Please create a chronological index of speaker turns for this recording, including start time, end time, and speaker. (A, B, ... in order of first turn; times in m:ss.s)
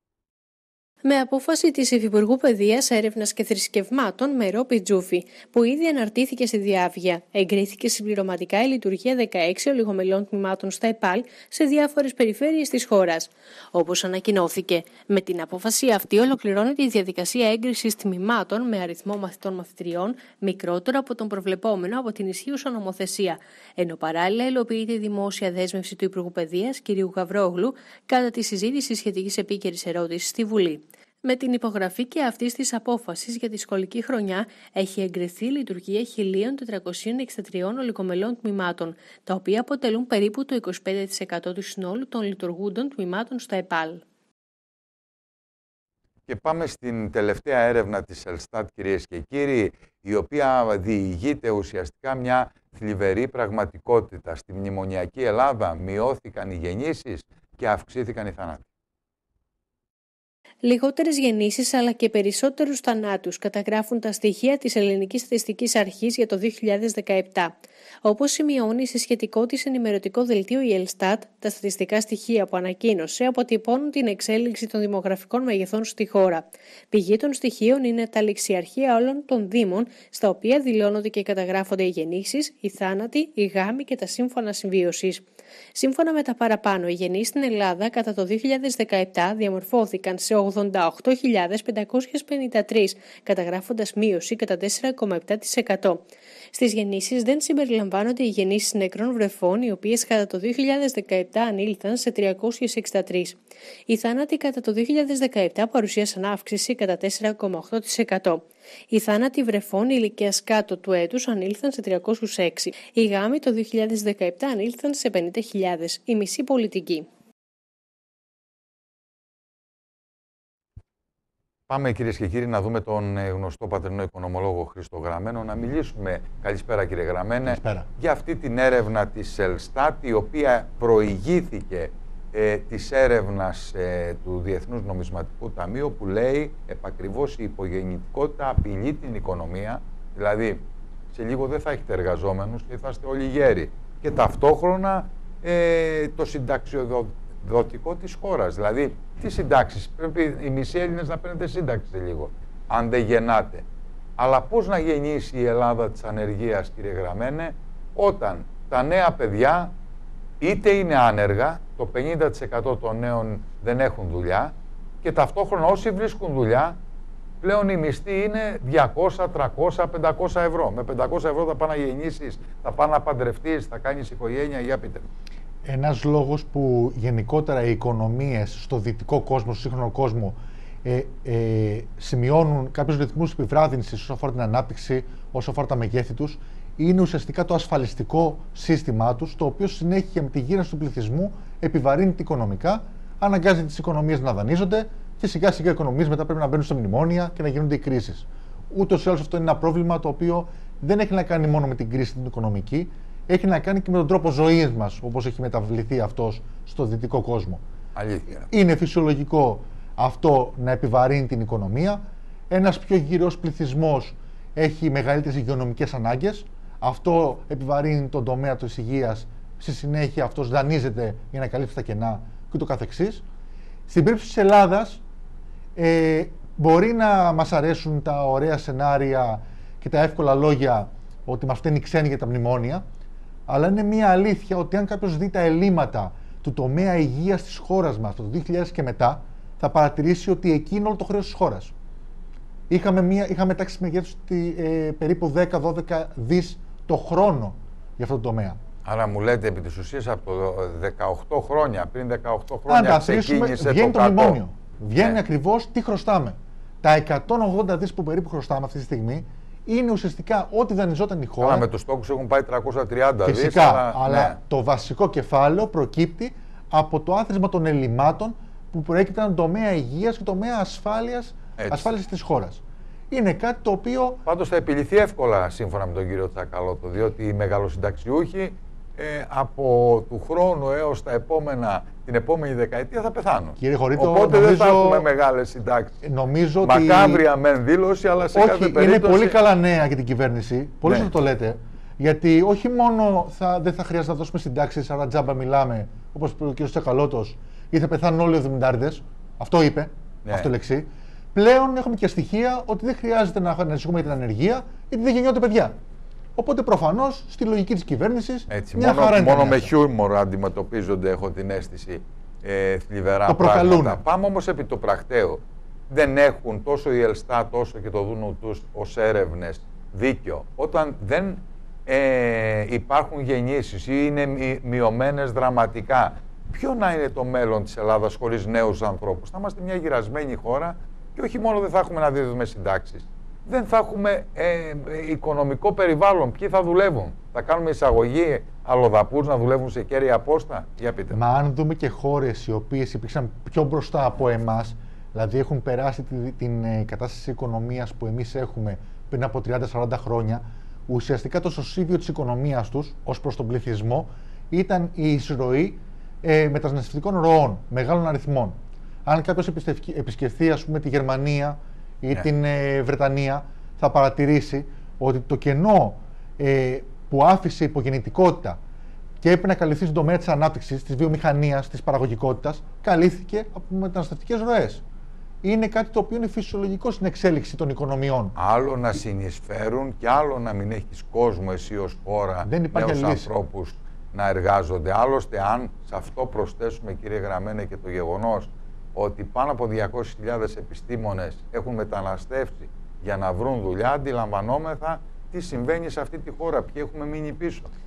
0:01.0-0:44.0 A
0:46.3-0:58.7 B
1:00.6-1:07.5 A
1:08.0-1:43.4 A
1:43.9-1:57.1 A
2:01.7-2:33.6 B
2:07.4-2:07.9 C
2:34.2-2:39.7 B
2:40.4-2:46.8 B
2:47.4-2:55.0 B
2:55.6-3:27.6 C
3:28.0-3:28.5 B
3:28.5-3:43.2 C
3:43.9-3:45.0 C
3:45.8-3:52.8 C
3:53.5-4:01.7 C
4:02.7-4:08.6 C
4:08.8-4:14.4 B
4:12.7-4:21.7 C
4:21.4-4:24.4 B
4:23.2-4:34.2 C
4:31.6-4:31.9 B
4:34.3-4:46.0 B
4:43.6-4:45.1 C
4:46.0-4:47.2 C
4:46.6-4:49.4 B
4:48.3-5:05.8 C
4:50.8-4:51.1 B
5:06.4-5:09.7 C
5:08.5-5:41.2 B
5:13.3-5:14.0 C
5:41.1-6:08.6 C
6:09.2-6:14.8 C
6:15.4-6:18.3 C
6:18.4-6:37.7 B
6:22.4-6:23.3 C